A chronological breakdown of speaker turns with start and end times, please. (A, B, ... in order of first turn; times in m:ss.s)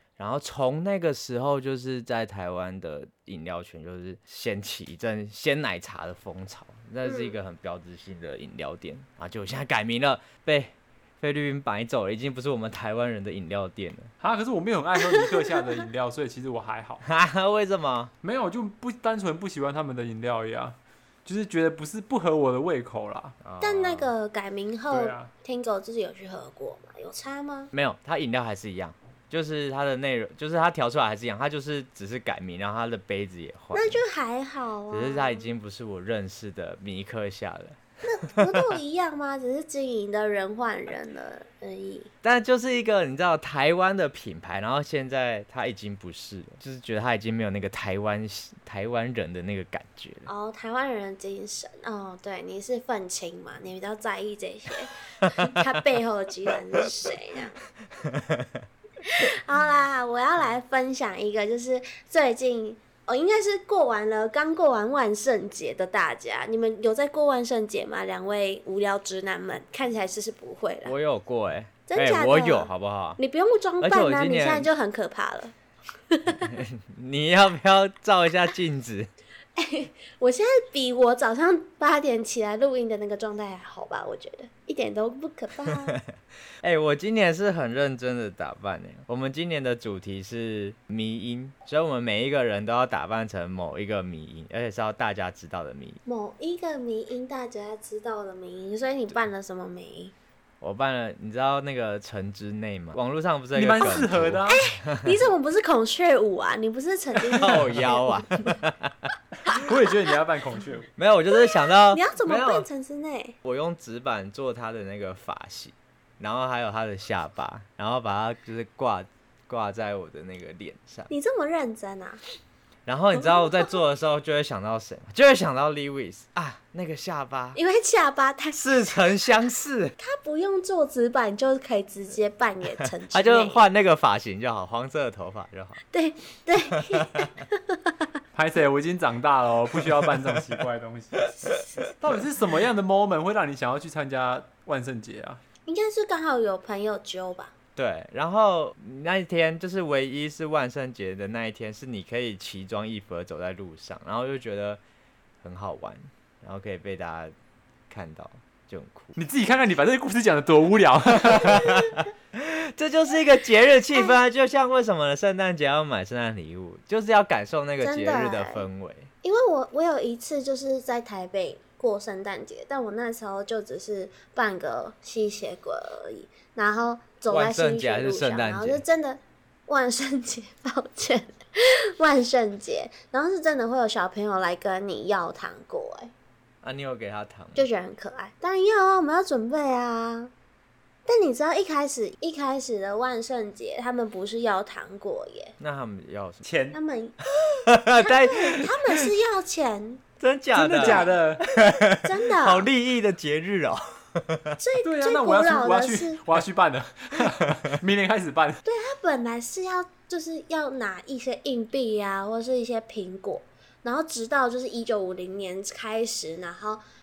0:00.2-0:14.1 A
0:07.0-0:07.3 B
0:14.2-0:17.0 C
0:17.0-0:18.1 A
0:18.2-0:23.4 C
0:23.4-0:24.1 A
0:23.6-0:27.7 B
0:24.9-0:25.3 C
0:27.7-0:34.0 A
0:33.7-0:35.5 B
0:34.9-0:37.8 A
0:38.0-0:42.1 B
0:38.3-0:38.7 A
0:42.2-0:50.3 A
0:50.3-0:57.6 B
0:58.1-0:58.4 A
0:59.1-1:10.9 B
1:10.8-1:13.2 A
1:11.9-1:15.5 B
1:13.8-1:14.7 A
1:16.1-1:16.5 B
1:16.4-1:19.1 A
1:19.6-1:26.0 B
1:26.6-1:36.0 A
1:36.0-1:40.1 B
1:40.6-1:45.1 A
1:43.5-1:44.6 C
1:43.8-1:48.6 B
1:47.4-1:49.1 A
1:49.5-1:50.9 C
1:51.0-1:52.7 A
1:51.3-1:53.4 B
1:53.4-2:01.1 A
2:01.1-2:02.2 B
2:02.8-2:07.6 A
2:03.2-2:03.7 B
2:07.5-2:09.0 B
2:08.6-2:09.9 A
2:10.0-2:13.7 B
2:13.1-2:15.8 A
2:15.9-2:18.0 B
2:18.3-2:21.2 C
2:19.8-2:20.5 A
2:22.0-2:25.4 C
2:25.7-2:27.5 B
2:27.8-2:34.8 A
2:35.4-2:37.3 A
2:37.9-2:39.1 A
2:39.2-2:41.6 C
2:41.3-2:49.1 A
2:47.8-2:48.7 B
2:49.2-3:01.4 B
2:57.3-2:58.8 A
3:02.0-3:06.1 B
3:06.6-3:07.7 A
3:07.6-3:10.3 B
3:11.0-3:15.5 B
3:15.6-3:16.4 A
3:16.4-3:16.8 C
3:16.7-3:17.2 B
3:17.7-3:18.7 A
3:17.9-3:20.0 B
3:20.2-3:24.6 A
3:20.5-3:21.5 C
3:20.8-3:21.2 B
3:22.0-3:22.7 B
3:24.6-3:26.2 B
3:24.8-3:28.6 C
3:28.6-3:36.8 B